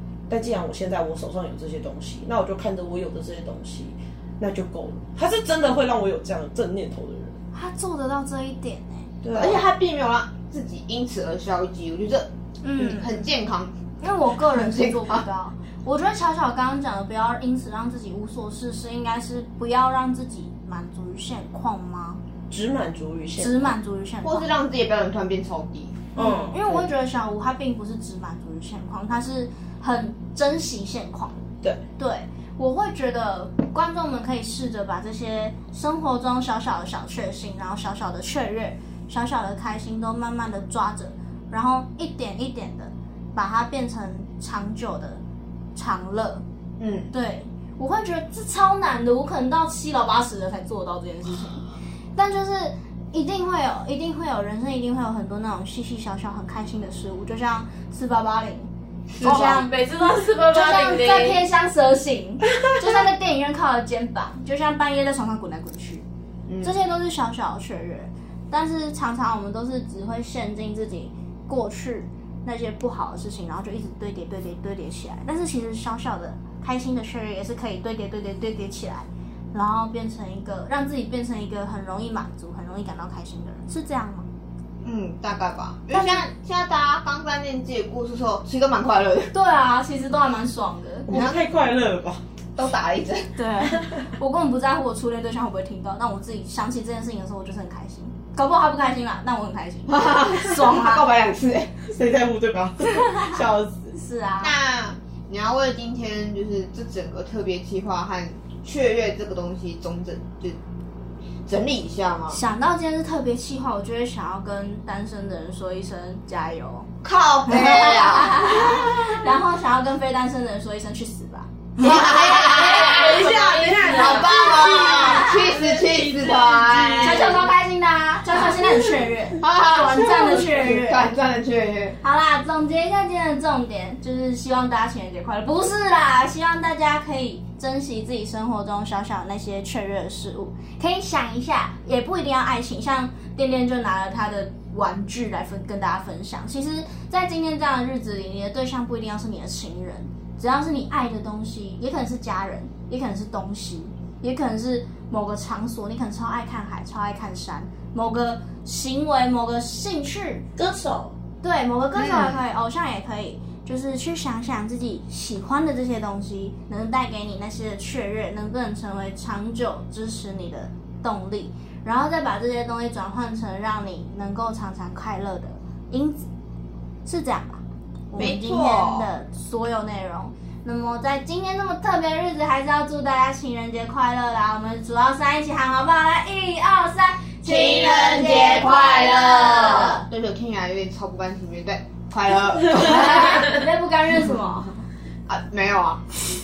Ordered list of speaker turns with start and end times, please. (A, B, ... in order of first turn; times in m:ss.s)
0:00.3-0:07.4 A
0:07.5-0:09.1 B
0:09.2-0:09.6 A
0:09.3-0:13.7 C
0:12.6-0:13.1 B
0:14.0-0:22.2 B
0:14.4-0:15.2 C
0:22.5-0:23.8 A
0:23.4-0:24.5 B
0:24.2-0:26.1 C
0:26.1-0:26.9 A
0:26.1-0:31.5 B
0:32.0-0:45.2 B
0:45.7-0:46.4 B
0:46.8-0:47.1 C
0:47.1-0:51.6 B
0:52.2-0:58.7 B
0:59.1-0:59.6 C
0:59.2-0:59.7 B
0:59.2-1:01.4 D
1:00.5-1:06.0 B
1:06.5-1:06.7 C
1:06.6-1:24.3 B
1:24.8-1:29.3 C
1:25.9-1:26.2 B
1:29.3-1:31.4 B
1:31.1-1:32.2 A
1:32.6-1:33.3 C
1:33.3-1:41.1 B
1:39.9-1:41.7 C
1:41.8-1:44.0 A
1:42.9-1:43.3 B
1:43.9-1:44.6 B
1:44.4-1:50.6 C
1:51.5-1:52.4 C
1:52.3-1:56.9 B
1:57.0-1:58.9 C
1:57.4-2:05.6 B
2:01.8-2:03.3 C
2:01.8-2:07.4 A
2:03.8-2:07.4 C
2:07.0-2:11.1 B
2:08.4-2:08.8 A
2:09.4-2:12.0 C
2:12.0-2:40.5 B
2:40.6-2:41.1 A
2:41.4-2:56.3 B
2:42.0-2:42.4 C
2:57.0-3:10.0 B
2:58.2-2:59.1 C
3:07.4-3:13.4 C
3:12.6-3:14.7 B
3:12.7-3:13.6 A
3:15.3-3:16.0 C